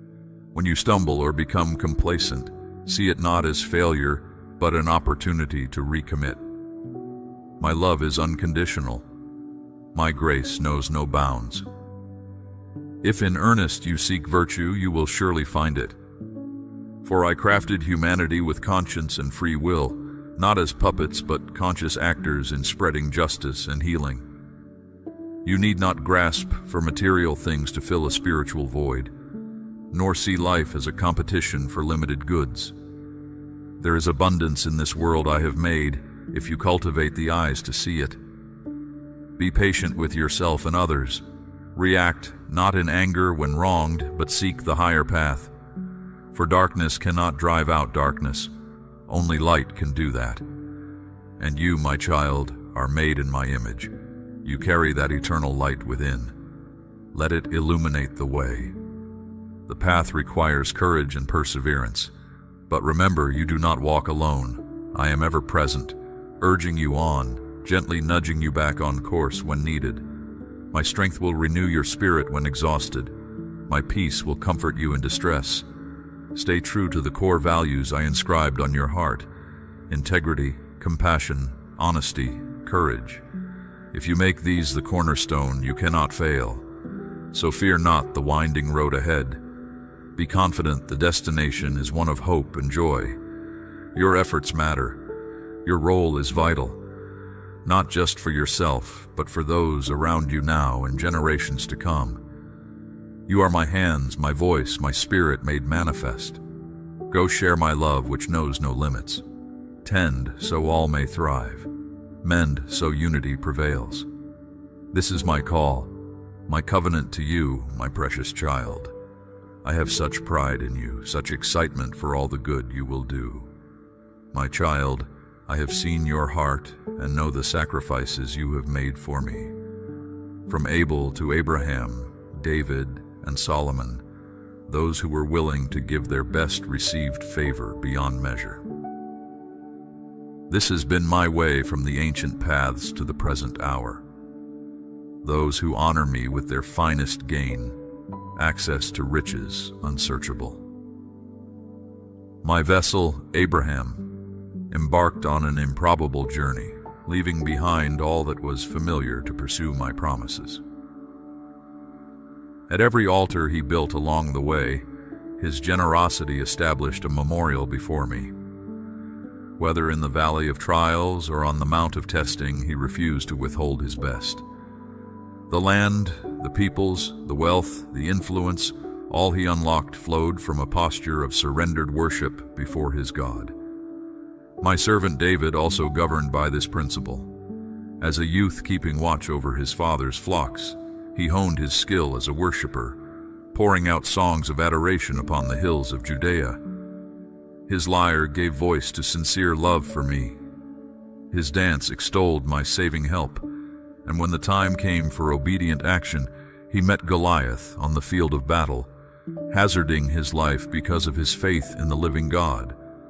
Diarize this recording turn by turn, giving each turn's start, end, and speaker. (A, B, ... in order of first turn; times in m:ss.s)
0:00.5-0:06.4 A
0:07.6-0:09.0 A
0:09.9-0:11.6 A
0:13.0-0:16.0 A
0:17.0-0:24.2 A
0:25.4-0:29.1 A
0:29.9-0:32.7 A
0:33.8-0:38.2 A
0:39.4-0:41.2 A
0:41.8-0:45.5 A
0:46.3-0:48.5 A
0:49.1-0:50.4 A
0:51.4-0:53.9 A
0:54.4-0:56.3 A
0:57.1-0:58.7 A
0:59.7-1:02.1 A
1:02.7-1:10.0 A
1:10.7-1:13.1 A
1:13.7-1:15.6 A
1:16.3-1:19.3 A
1:19.9-1:23.2 A
1:23.9-1:26.6 A
1:27.3-1:29.4 A
1:30.2-1:33.2 A
1:33.9-1:35.1 A
1:35.6-1:36.8 A
1:37.6-1:42.2 A
1:43.3-1:46.4 A
1:47.1-1:49.2 A
1:49.8-1:51.7 A
1:52.2-1:54.1 A
1:54.9-1:55.9 A
1:56.5-1:58.9 A
1:59.6-2:03.5 A
2:04.3-2:09.5 A
2:10.5-2:14.0 A
2:14.7-2:18.6 A
2:20.5-2:24.0 A
2:25.2-2:27.8 A
2:28.4-2:30.6 A
2:32.4-2:34.2 A
2:34.7-2:40.6 A
2:42.7-2:44.8 A
2:45.4-2:48.3 A
2:49.6-2:54.4 A
2:55.5-3:03.5 A
3:04.6-3:07.3 A
3:08.0-3:13.0 A
3:13.5-3:16.6 A
3:17.7-3:20.4 A
3:21.3-3:23.4 A
3:24.0-3:28.9 A
3:29.5-3:32.8 A